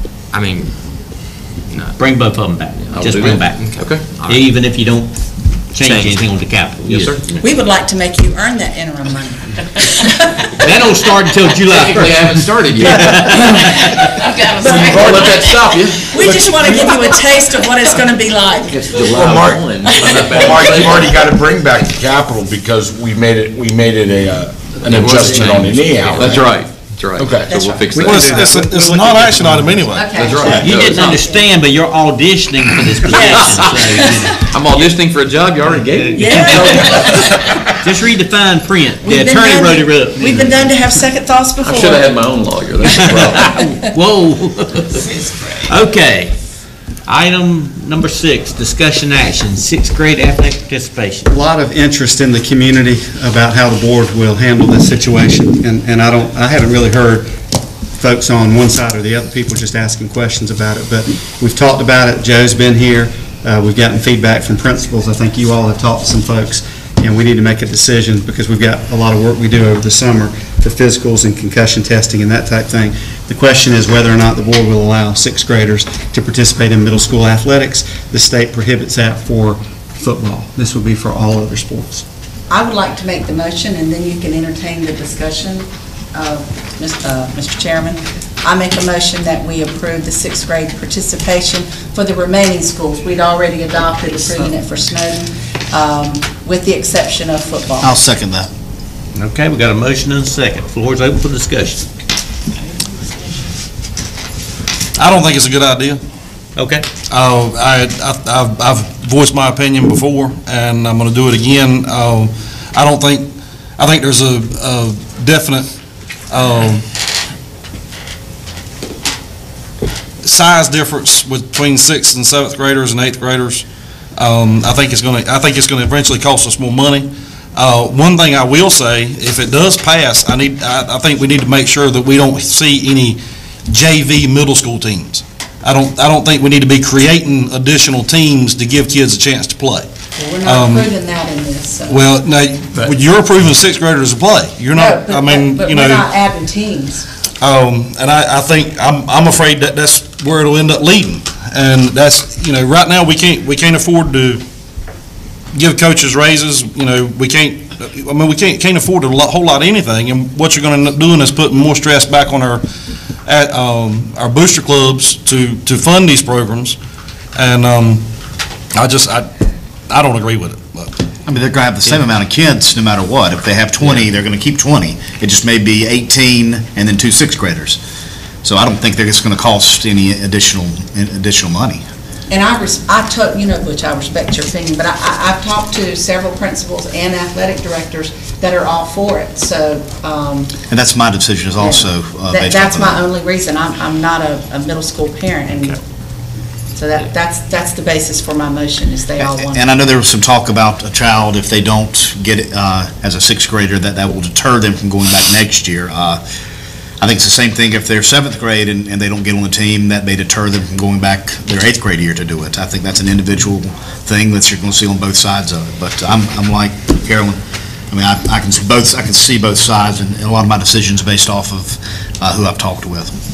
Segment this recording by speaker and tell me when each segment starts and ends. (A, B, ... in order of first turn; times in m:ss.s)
0:00.3-0:02.0 A
0:02.0-0:07.4 B
0:02.9-0:04.1 C
0:03.5-0:04.5 A
0:05.8-0:06.3 A
0:06.8-0:07.2 C
0:07.4-0:10.5 D
0:10.6-0:13.9 B
0:11.7-0:17.0 C
0:14.2-0:19.1 D
0:18.6-0:21.2 C
0:19.0-0:27.8 E
0:19.9-0:20.5 D
0:24.8-0:28.5 C
0:24.9-0:26.0 A
0:27.5-0:28.4 D
0:28.0-0:29.8 F
0:28.0-0:30.3 G
0:29.9-0:31.4 D
0:30.1-0:31.2 C
0:30.4-0:34.5 B
0:33.1-0:34.1 D
0:33.1-0:37.3 C
0:35.7-0:37.1 B
0:36.2-0:37.3 D
0:37.8-0:40.6 B
0:39.0-0:42.4 D
0:41.6-0:43.6 C
0:42.9-0:43.6 D
0:43.0-0:45.0 B
0:45.6-0:46.3 B
0:47.0-0:51.3 B
0:51.3-0:57.3 F
0:57.9-1:22.0 F
1:22.5-1:38.0 D
1:37.8-1:38.5 H
1:39.2-1:41.8 B
1:45.0-1:46.0 G
1:46.6-1:46.8 B
1:47.1-1:56.9 G
2:00.2-2:19.9 G
2:20.2-2:22.1 D
2:20.4-2:20.9 G
2:21.9-2:26.1 G
2:24.7-2:27.0 D
2:27.4-2:34.4 G
2:35.5-2:42.6 G
2:43.2-2:46.8 G
2:47.4-2:48.0 G
2:48.7-2:49.3 G
2:49.9-2:51.0 G
2:51.3-2:57.8 H
2:58.4-3:01.8 H
3:02.3-3:10.6 D
3:10.7-3:13.0 H
3:11.6-3:15.8 D
3:15.5-3:15.8 A
3:16.8-3:19.8 D
3:19.4-3:26.2 H
3:27.0-3:43.2 H